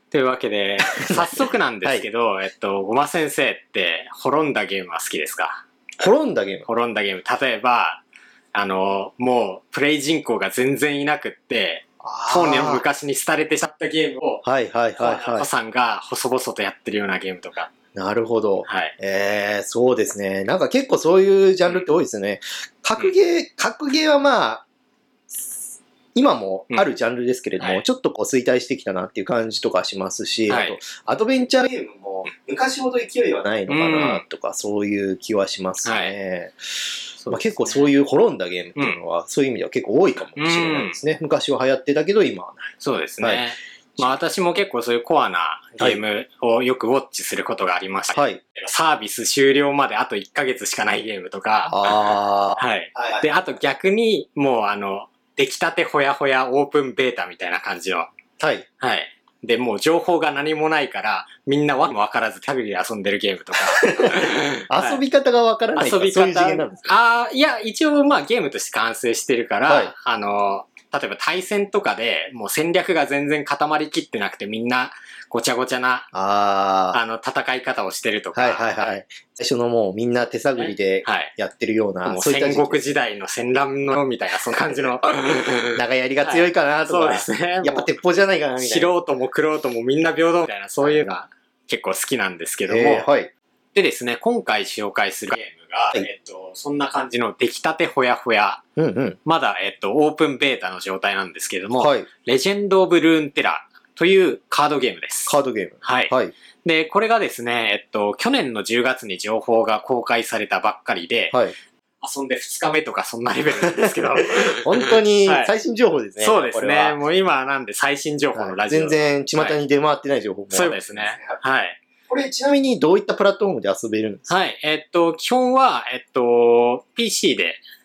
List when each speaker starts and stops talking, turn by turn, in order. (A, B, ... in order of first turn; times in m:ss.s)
0:00.1-0:05.6 A
0:01.0-0:02.1 B
0:06.0-0:06.7 B
0:06.7-0:08.0 A
0:08.5-0:14.4 A
0:12.0-0:12.8 B
0:14.4-0:15.5 B
0:15.0-0:17.7 A
0:18.0-0:24.6 B
0:18.6-0:19.0 A
0:25.3-0:44.2 B
0:27.6-0:27.8 A
0:30.5-0:30.8 A
0:33.7-0:34.2 A
0:35.8-0:36.1 A
0:37.2-0:37.9 A
0:40.4-0:41.0 A
0:42.8-0:58.1 A
0:48.2-0:48.4 B
0:51.7-0:53.3 B
0:58.4-0:58.7 B
0:58.8-1:05.0 A
1:03.8-1:07.0 B
1:05.8-1:16.1 A
1:09.7-1:09.9 B
1:16.1-1:17.0 B
1:16.9-1:19.0 A
1:18.4-1:22.8 B
1:20.6-1:21.3 A
1:22.0-1:27.9 A
1:24.5-1:24.9 B
1:25.8-1:28.9 B
1:28.6-1:33.1 A
1:32.7-1:33.3 B
1:33.7-1:38.6 A
1:38.8-1:39.2 B
1:39.2-1:46.1 A
1:41.8-1:42.1 B
1:45.3-1:46.3 B
1:46.6-1:51.4 A
1:52.0-1:55.5 A
1:53.7-1:57.0 B
1:56.2-1:59.6 A
1:58.3-2:01.4 B
2:00.5-2:01.8 A
2:02.1-2:04.3 B
2:04.3-2:07.6 A